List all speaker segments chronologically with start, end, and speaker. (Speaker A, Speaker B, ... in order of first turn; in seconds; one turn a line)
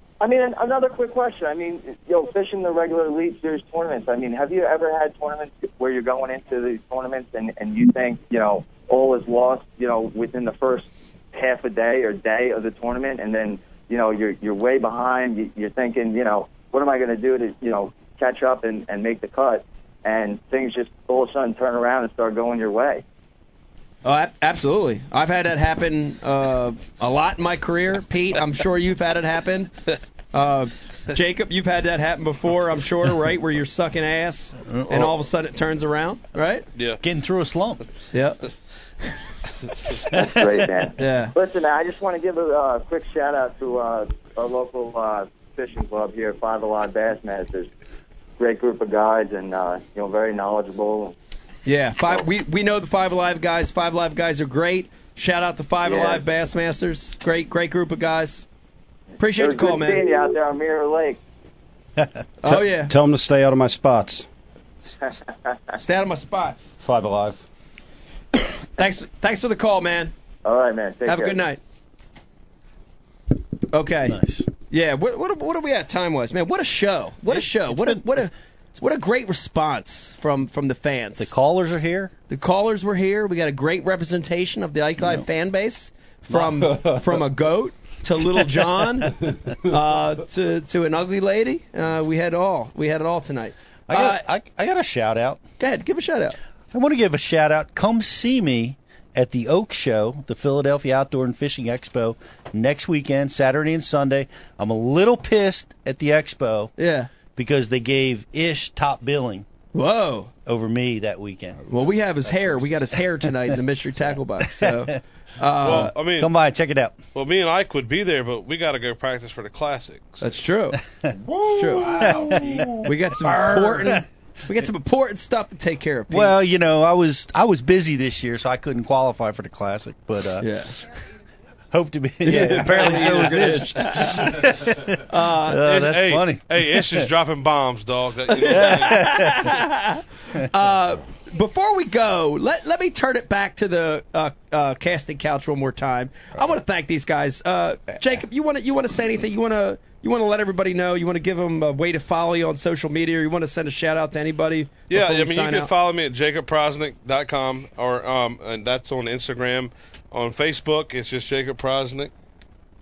Speaker A: 0.2-23.0
Speaker B: 24.0-29.7
Speaker B: 30.3-36.6
Speaker C: 34.7-35.1
Speaker D: 36.7-37.0
Speaker C: 37.0-37.8
Speaker B: 38.1-38.4
Speaker A: 40.1-47.7
Speaker B: 41.0-41.3
Speaker A: 48.4-51.1
Speaker B: 51.6-58.5
Speaker A: 55.8-56.2
Speaker B: 59.2-60.1
Speaker A: 59.3-61.2
Speaker B: 62.4-62.9
Speaker E: 62.5-64.3
Speaker A: 65.0-65.5
Speaker B: 65.8-66.7
Speaker E: 66.8-67.4
Speaker B: 68.8-70.1
Speaker A: 70.4-71.5
Speaker B: 71.0-71.6
Speaker B: 73.7-81.3
Speaker C: 74.1-74.5
Speaker C: 77.3-78.0
Speaker C: 81.2-82.1
Speaker B: 82.3-94.2
Speaker E: 86.6-87.0
Speaker C: 93.9-95.4
Speaker B: 95.6-96.4
Speaker C: 96.7-106.7
Speaker B: 106.8-107.1
Speaker C: 107.3-109.5
Speaker B: 109.7-110.3
Speaker C: 110.5-111.6
Speaker B: 111.7-115.9
Speaker C: 114.6-115.0
Speaker D: 115.6-116.3
Speaker C: 115.7-117.0
Speaker D: 117.1-120.2
Speaker B: 120.2-120.8
Speaker E: 121.2-122.7
Speaker B: 121.5-122.1
Speaker C: 121.9-124.0
Speaker B: 122.8-126.3
Speaker E: 123.5-123.9
Speaker C: 126.1-130.5
Speaker B: 130.4-130.8
Speaker C: 131.7-137.1
Speaker B: 132.2-134.4
Speaker B: 135.1-135.6
Speaker D: 135.6-139.2
Speaker B: 138.3-155.7
Speaker C: 138.6-139.5
Speaker D: 154.9-162.1